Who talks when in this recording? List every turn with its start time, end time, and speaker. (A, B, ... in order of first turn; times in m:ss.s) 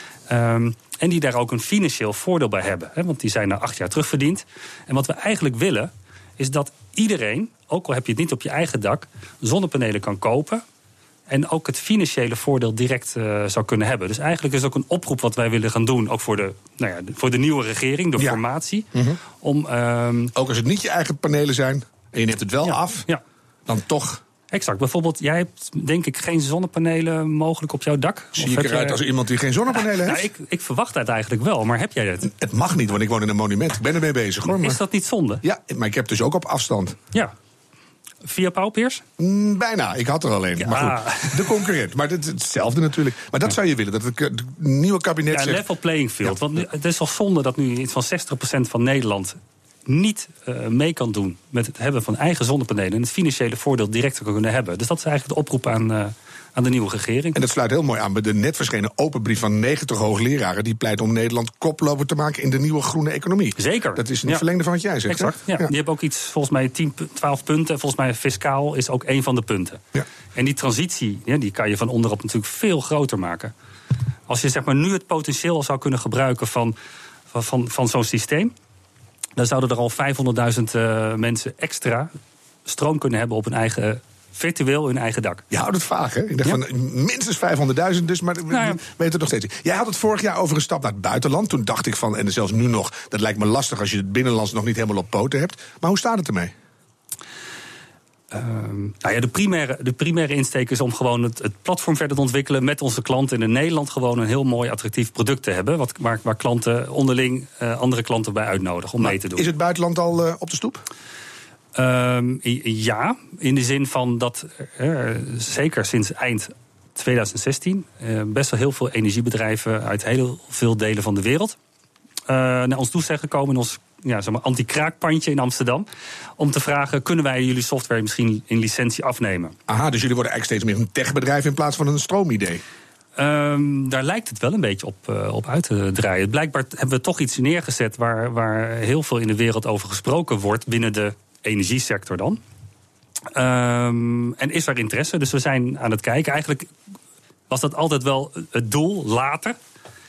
0:00.3-0:10.6 A
0:11.3-0:20.3 A
0:18.9-0:19.2 B
0:20.4-0:23.0 B
0:22.6-0:23.2 A
0:23.7-0:24.2 B
0:24.5-0:29.0 A
0:28.4-0:30.3 B
0:29.7-0:32.3 A
0:32.3-0:34.8 B
0:34.4-0:35.4 A
0:35.4-0:37.0 B
0:38.2-0:39.0 A
0:39.2-0:45.6 B
0:40.6-0:41.6 A
0:45.3-0:57.4 A
0:57.4-1:05.7 B
1:03.6-1:04.4 A
1:05.1-1:09.8 A
1:10.4-1:13.5 A
1:14.3-1:16.8 A
1:17.3-1:18.5 A
1:19.4-1:22.1 A
1:22.7-1:25.4 A
1:25.5-1:36.5 B
1:28.5-1:28.8 A
1:38.3-1:49.5 A
1:49.0-1:50.8 B
1:51.8-2:01.6 A
2:02.3-2:05.9 A
2:06.4-2:09.6 A
2:09.7-2:12.6 B
2:13.2-2:22.4 A
2:23.3-2:26.7 A
2:27.5-2:29.6 A